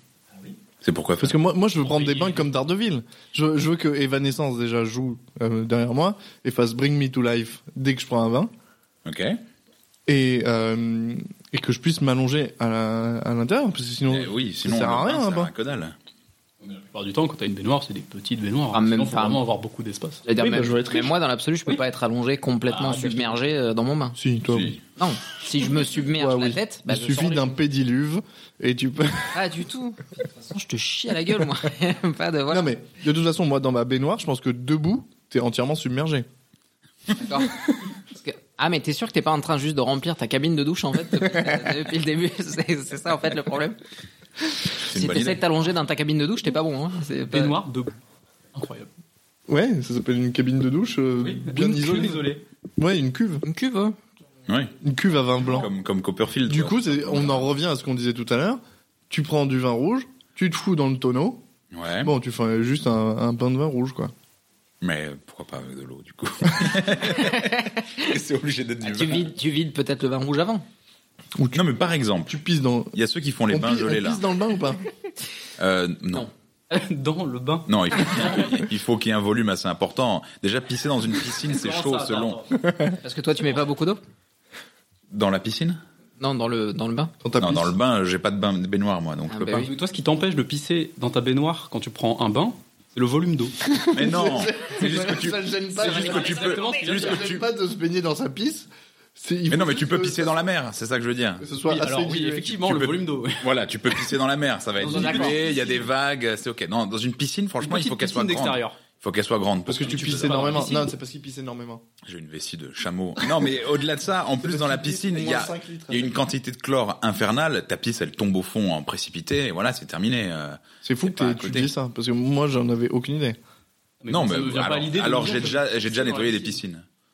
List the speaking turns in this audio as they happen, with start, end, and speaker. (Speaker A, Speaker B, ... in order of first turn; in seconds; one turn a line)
Speaker A: 0.8-1.4
Speaker B: 1.2-8.5
Speaker C: 1.8-2.5
Speaker A: 9.0-9.4
Speaker B: 10.1-15.5
Speaker A: 14.1-15.9
Speaker C: 16.6-20.6
Speaker D: 18.7-19.4
Speaker D: 20.2-24.2
Speaker B: 20.4-21.1
Speaker C: 22.7-23.4
Speaker B: 24.1-24.8
Speaker D: 24.9-27.5
Speaker B: 26.1-29.4
Speaker D: 29.3-32.7
Speaker B: 32.5-36.3
Speaker D: 37.1-43.8
Speaker A: 44.8-45.4
Speaker D: 44.8-47.5
Speaker C: 47.3-48.0
Speaker C: 48.5-48.9
Speaker B: 49.5-53.4
Speaker C: 51.2-52.4
Speaker D: 53.4-54.0
Speaker A: 54.5-54.7
Speaker B: 54.8-55.7
Speaker A: 55.5-57.4
Speaker B: 56.5-61.4
Speaker A: 61.7-62.1
Speaker B: 62.0-64.1
Speaker A: 64.8-69.3
Speaker D: 67.0-68.1
Speaker D: 68.8-70.6
Speaker A: 71.5-72.3
Speaker B: 72.3-72.9
Speaker A: 72.9-74.2
Speaker B: 73.5-74.8
Speaker A: 75.6-76.3
Speaker C: 76.7-78.5
Speaker A: 77.7-82.4
Speaker C: 81.5-82.6
Speaker D: 82.9-84.0
Speaker A: 85.1-85.8
Speaker D: 86.2-87.1
Speaker B: 87.2-87.7
Speaker A: 87.4-89.7
Speaker D: 89.3-89.7
Speaker C: 89.6-93.5
Speaker B: 93.6-100.3
Speaker A: 93.9-97.4
Speaker C: 95.8-97.3
Speaker A: 99.5-101.5
Speaker B: 101.4-102.7
Speaker C: 101.6-103.5
Speaker A: 102.7-110.7
Speaker C: 104.8-105.4
Speaker D: 104.8-105.7
Speaker C: 107.6-108.8
Speaker B: 109.7-111.8
Speaker C: 109.7-110.9
Speaker A: 112.0-121.7
Speaker B: 114.4-116.2
Speaker B: 120.8-123.4
Speaker C: 124.0-126.6
Speaker A: 124.1-126.8